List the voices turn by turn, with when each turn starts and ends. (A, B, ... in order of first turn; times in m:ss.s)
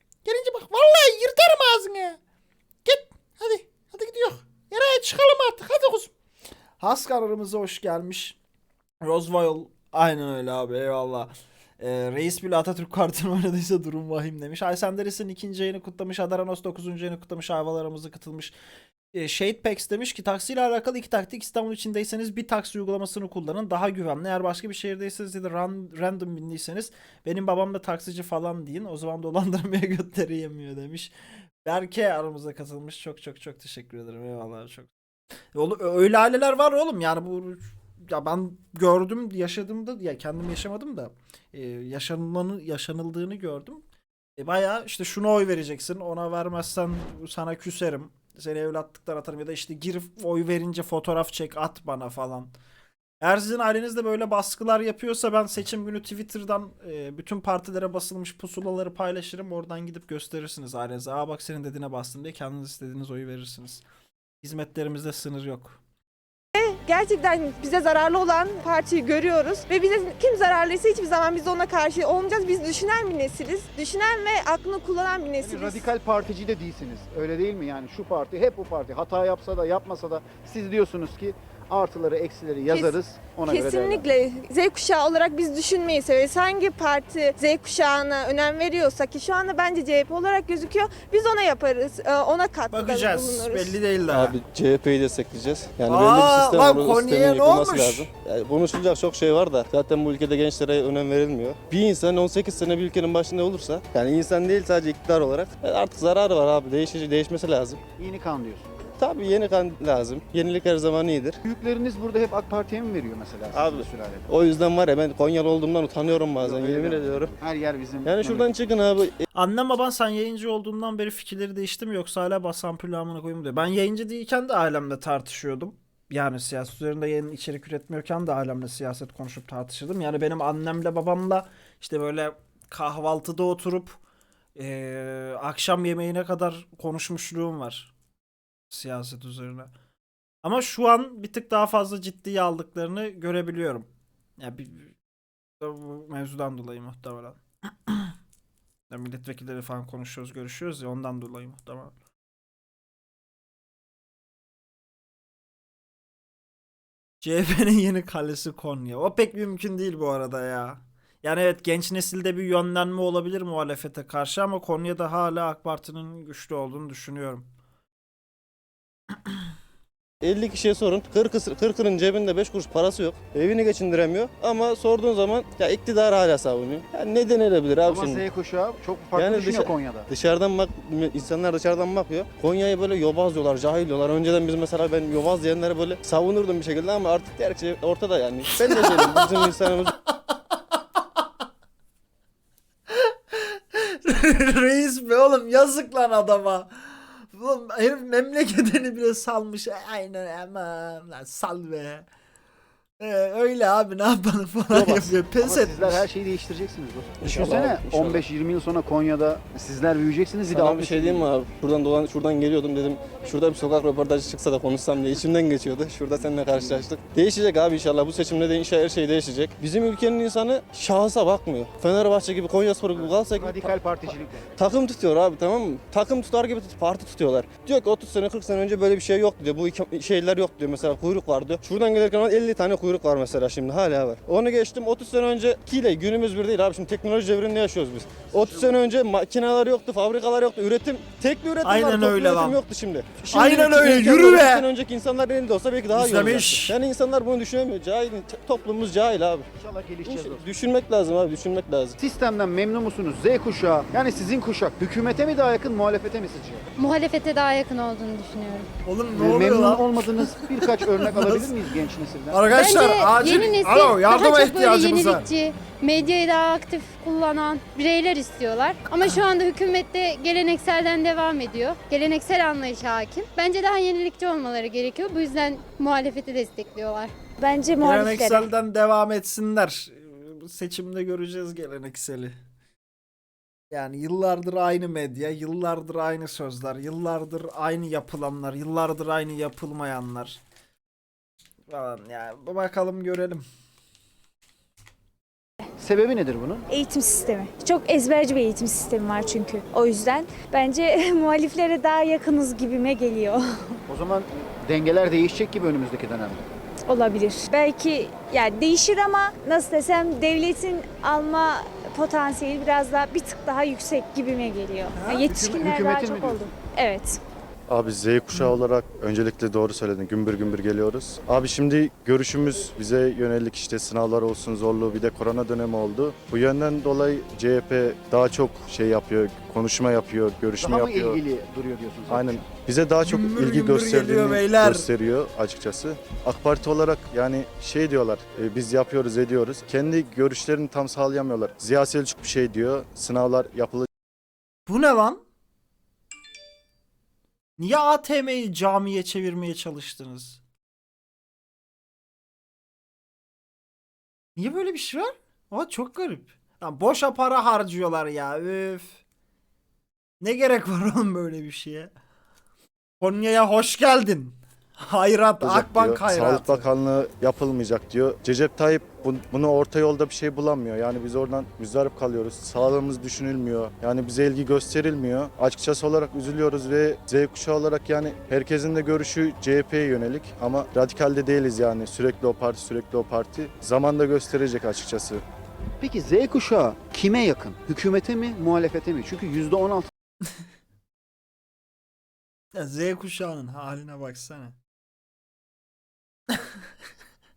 0:00.2-0:02.2 A
0:02.8-0:06.1 A
0:06.8-0:08.4 A
0:09.0-0:18.6 A
0:19.1-0:31.1 A
0:31.6-0:34.9 A
0:35.5-0:43.8 A
0:44.4-0:52.5 A
0:53.2-1:03.8 A
1:04.4-1:05.8 A
1:06.6-1:15.9 B
1:15.4-1:24.1 C
1:22.7-1:33.8 B
1:32.7-1:34.4 A
1:34.1-1:47.8 D
1:35.9-1:38.1 A
1:48.0-1:48.7 C
1:49.0-1:51.4 D
1:51.5-1:54.2 C
1:53.5-1:57.4 D
1:56.4-1:58.5 C
1:58.0-1:59.2 D
1:59.3-2:14.0 A
2:14.6-2:17.9 A
2:18.7-2:19.7 A
2:20.4-2:25.0 A
2:25.6-2:28.1 A
2:28.9-2:32.0 A
2:37.2-2:47.5 A
2:50.2-2:58.3 D
2:57.9-3:00.1 C
2:59.2-3:10.0 D
3:08.6-3:09.5 A
3:10.1-3:10.8 A
3:13.1-3:22.1 A
3:23.0-3:26.1 A
3:24.7-3:31.2 C
3:27.2-3:28.3 D
3:30.5-4:09.5 D
3:43.0-3:44.4 C
4:01.6-4:02.6 A
4:03.2-4:04.7 A
4:06.0-4:06.8 A
4:09.6-4:10.5 C
4:10.0-4:12.0 D
4:12.0-4:16.6 C
4:16.8-4:18.7 E
4:18.8-4:21.7 A
4:19.2-4:22.5 C
4:22.3-4:25.3 A
4:22.5-4:37.1 E
4:37.4-4:38.5 F
4:37.8-4:42.4 A
4:43.7-4:50.4 A
4:51.7-4:53.4 A
4:55.8-4:56.6 C
4:56.7-5:03.8 F
5:03.9-5:06.4 C
5:06.9-5:17.2 F
5:15.0-5:16.5 C
5:17.7-5:31.2 G
5:30.6-5:32.5 C
5:32.1-5:43.9 G
5:33.0-5:34.9 A
5:44.7-5:45.2 A
5:47.6-5:50.4 A
5:54.4-5:59.0 A
6:00.2-6:01.9 A
6:03.0-6:06.7 A
6:05.4-6:25.2 G
6:25.8-6:29.9 C
6:32.5-6:34.6 A